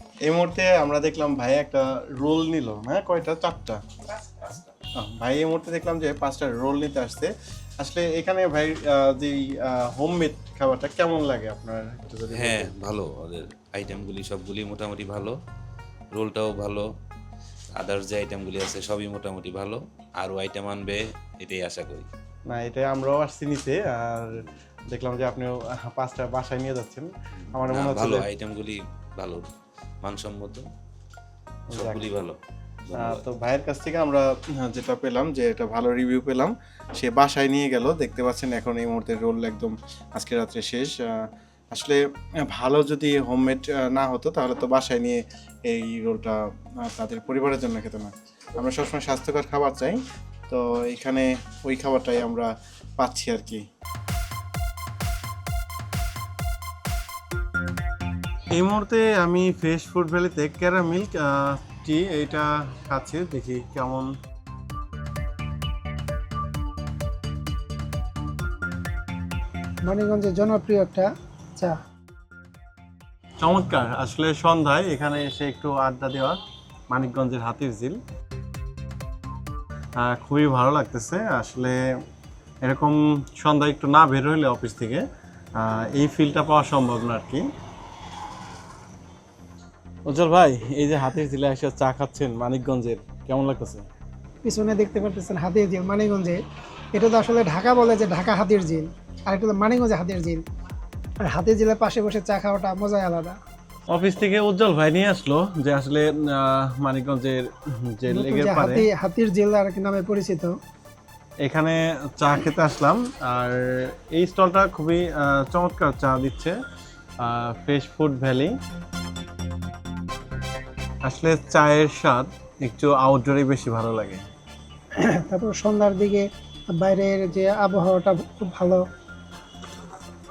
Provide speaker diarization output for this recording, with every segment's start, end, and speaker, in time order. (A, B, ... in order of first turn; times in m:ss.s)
0:00.3-0:12.7 A
0:12.3-0:15.4 B
0:16.1-0:16.9 B
0:17.8-0:22.1 B
0:22.5-0:24.4 A
0:24.9-0:28.3 A
0:27.6-0:29.5 B
0:30.0-0:30.7 B
0:31.7-0:32.1 A
0:31.7-0:32.4 B
0:32.9-0:33.3 B
0:33.0-0:53.6 A
0:58.5-1:04.1 A
1:09.9-1:11.8 C
1:13.4-1:16.4 A
1:16.9-1:18.0 A
1:20.0-1:21.8 A
1:22.6-1:25.0 A
1:25.6-1:27.4 A
1:30.1-1:33.8 A
1:34.4-1:36.4 C
1:37.0-1:40.4 C
1:41.2-1:43.4 C
1:43.9-1:48.9 A
1:48.1-1:50.6 C
1:51.4-1:56.5 A
1:57.2-1:58.6 A
2:01.1-2:04.2 A
2:05.0-2:08.8 C